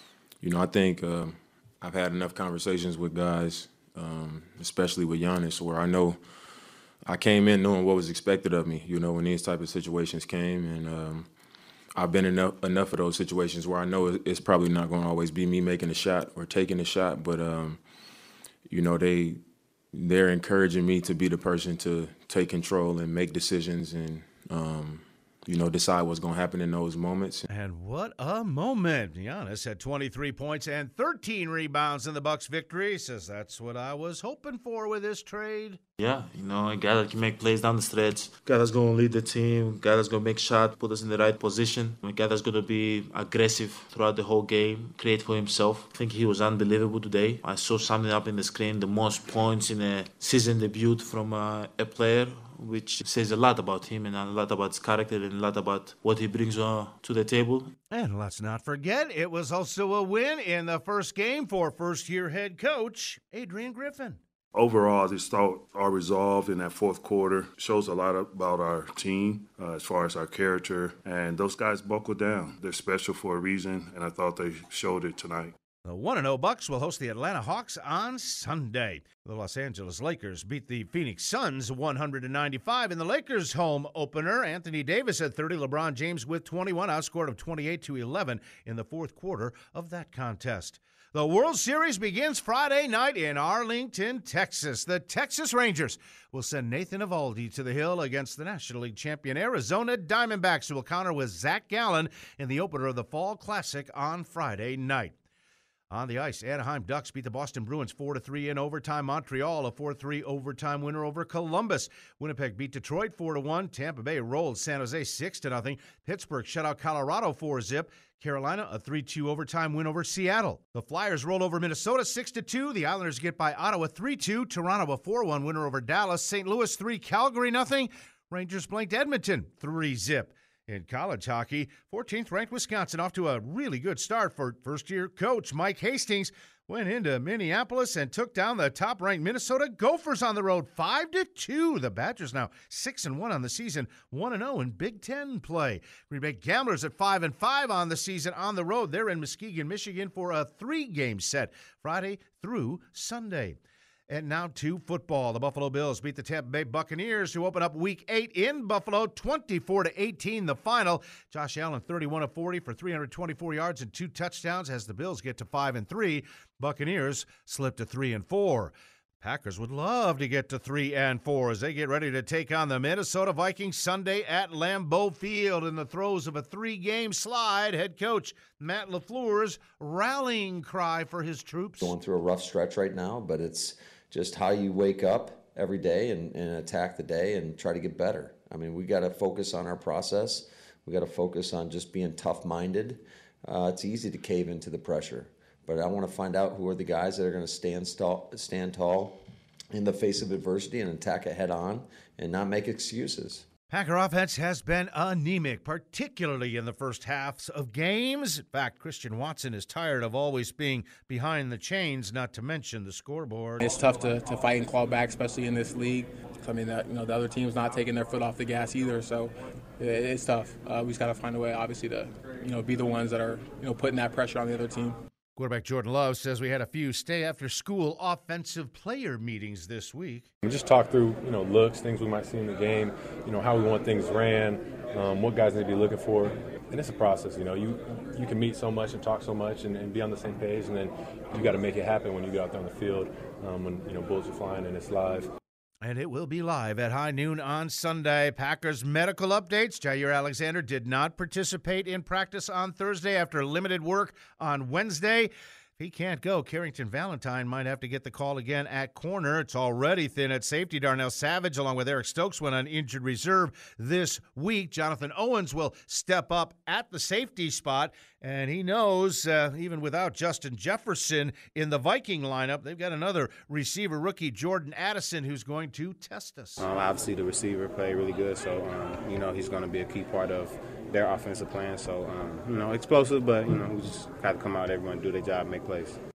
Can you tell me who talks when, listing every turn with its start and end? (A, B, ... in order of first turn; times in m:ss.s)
0:00.4-0:06.2 A
0:07.0-0:11.3 A
0:12.0-0:17.8 A
0:18.7-0:19.4 A
0:19.9-0:27.5 A
0:27.5-0:35.8 B
0:36.0-0:57.7 C
0:57.9-1:04.2 B
1:04.6-1:15.5 D
1:15.8-1:45.1 B
1:45.9-2:33.6 B
2:34.1-3:01.9 B
3:01.8-3:19.2 E
3:19.7-3:23.4 E
3:23.7-3:33.7 B
3:33.6-3:45.0 F
3:45.4-3:50.3 B
3:50.4-4:05.3 G
4:05.8-4:36.7 B
4:36.6-4:46.0 H